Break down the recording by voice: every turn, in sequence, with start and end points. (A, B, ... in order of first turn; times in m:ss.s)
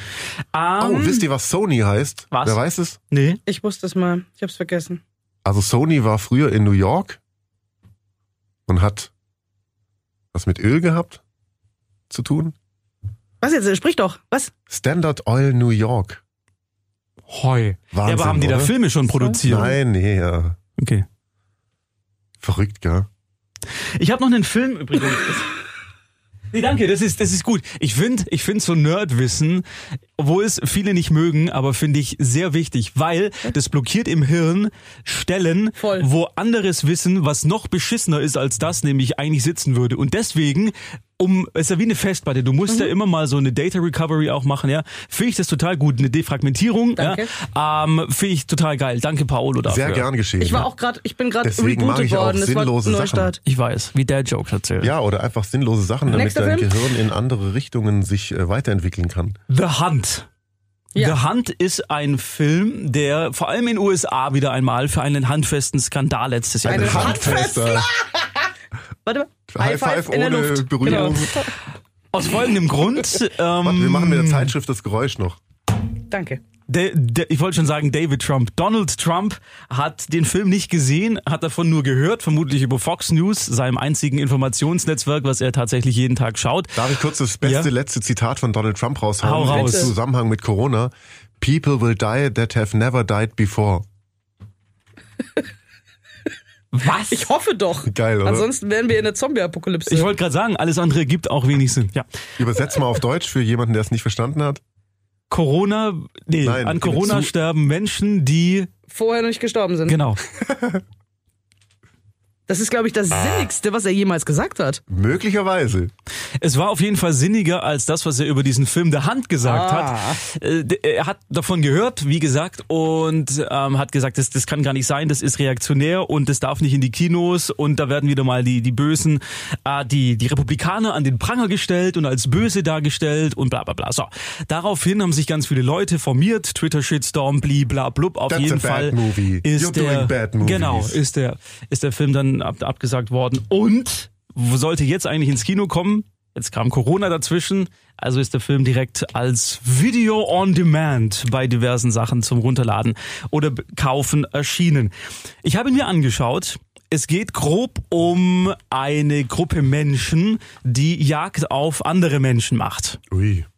0:00.5-0:01.2 A
0:00.8-0:03.0 B
0:02.3-0:02.6 A
0:03.1-0:03.4 A
0:03.5-0:05.0 C
0:05.4-0:07.2 B
0:08.7-0:09.1 B
0:10.3-0:11.2 B
0:12.1-0:12.5 B
0:13.4-0:14.5 C
0:14.7-0:16.2 B
0:17.3-0:19.7 A
0:17.9-0:18.8 B
0:19.1-0:19.7 C
0:19.4-0:20.6 B
0:20.8-0:21.1 A
0:22.4-0:23.1 B
0:24.0-0:25.5 A
0:26.5-0:29.6 A
0:30.2-0:50.1 A
0:35.8-0:36.1 C
0:42.7-0:42.9 C
0:47.0-0:47.3 C
0:49.6-0:50.7 B
0:50.4-0:53.4 C
0:51.4-0:53.3 B
0:53.4-0:54.9 A
0:54.8-0:59.4 B
0:56.1-0:56.8 C
0:59.5-1:00.3 A
1:01.0-1:07.5 A
1:06.6-1:07.9 B
1:06.7-1:08.4 C
1:09.1-1:11.5 C
1:09.5-1:11.4 B
1:10.8-1:11.2 A
1:12.1-1:14.5 A
1:13.6-1:15.4 B
1:16.1-1:16.4 C
1:16.7-1:26.8 A
1:26.8-1:33.8 B
1:27.4-1:27.7 A
1:29.2-1:29.9 A
1:29.6-1:29.9 C
1:36.7-1:37.3 A
1:37.1-1:40.1 C
1:37.9-1:38.5 B
1:39.9-1:42.1 A
1:42.4-1:44.6 B
1:45.3-1:48.7 A
1:46.4-1:47.3 B
1:48.9-1:50.0 C
1:49.9-1:50.2 A
1:50.4-1:50.8 B
1:52.5-1:54.8 C
1:54.9-1:55.9 B
1:56.4-2:34.9 A
1:59.4-2:00.2 C
2:18.3-2:21.0 B
2:35.4-2:43.0 A
2:43.1-2:43.5 B